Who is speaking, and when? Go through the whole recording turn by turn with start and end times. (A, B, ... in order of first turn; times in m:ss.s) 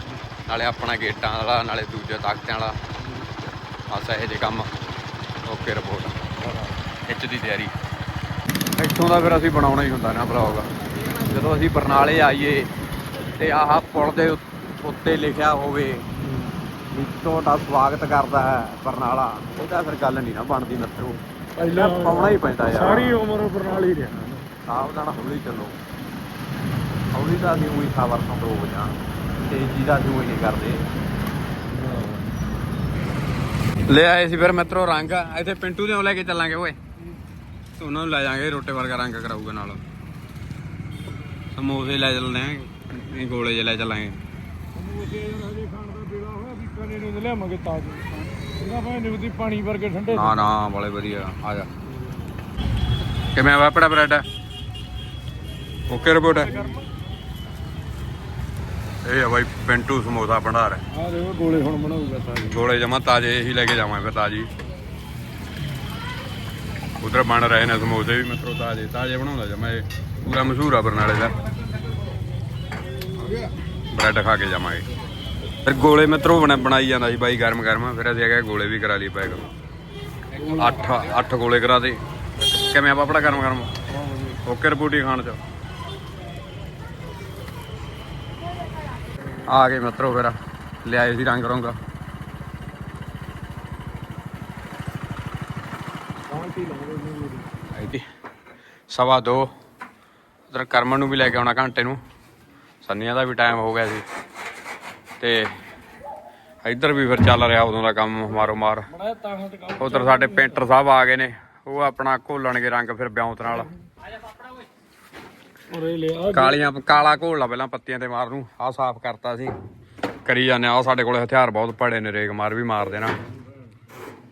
0:00.4-0:02.8 A
0:03.9-0:04.7 A
0:05.4-0:06.4 A
0:07.1-0:07.8 A
0:08.8-0:12.7 A
0:13.3-0:16.0 A
0:16.2-0:16.6 B
0:16.9-0:23.2 A
0:21.6-0:24.4 B
0:24.6-0:25.8 A
0:27.1-0:30.8 A
0:31.7-0:32.2 B
0:33.9-0:36.8 A
0:37.8-0:39.8 A
0:41.5-0:44.2 A
0:44.7-0:50.5 B
0:50.1-0:51.7 A
0:53.3-0:54.2 A
0:55.9-0:56.6 A
0:56.4-0:56.8 B
0:59.0-1:00.8 A
1:00.9-1:02.6 B
1:02.4-1:04.5 A
1:07.0-1:11.4 A
1:13.9-1:14.8 A
1:15.6-1:19.4 A
1:20.4-1:23.7 A
1:24.3-1:25.4 A
1:29.4-1:31.8 A
1:36.3-1:37.4 B
1:37.7-1:38.0 A
1:38.9-1:39.5 A
1:40.5-1:42.0 A
1:42.8-1:44.1 A
1:45.2-1:45.5 A
1:46.6-1:48.9 A
1:48.9-1:50.6 B
1:49.8-1:53.7 A
1:55.7-1:56.6 B
1:56.3-1:59.6 A
2:00.2-2:03.2 A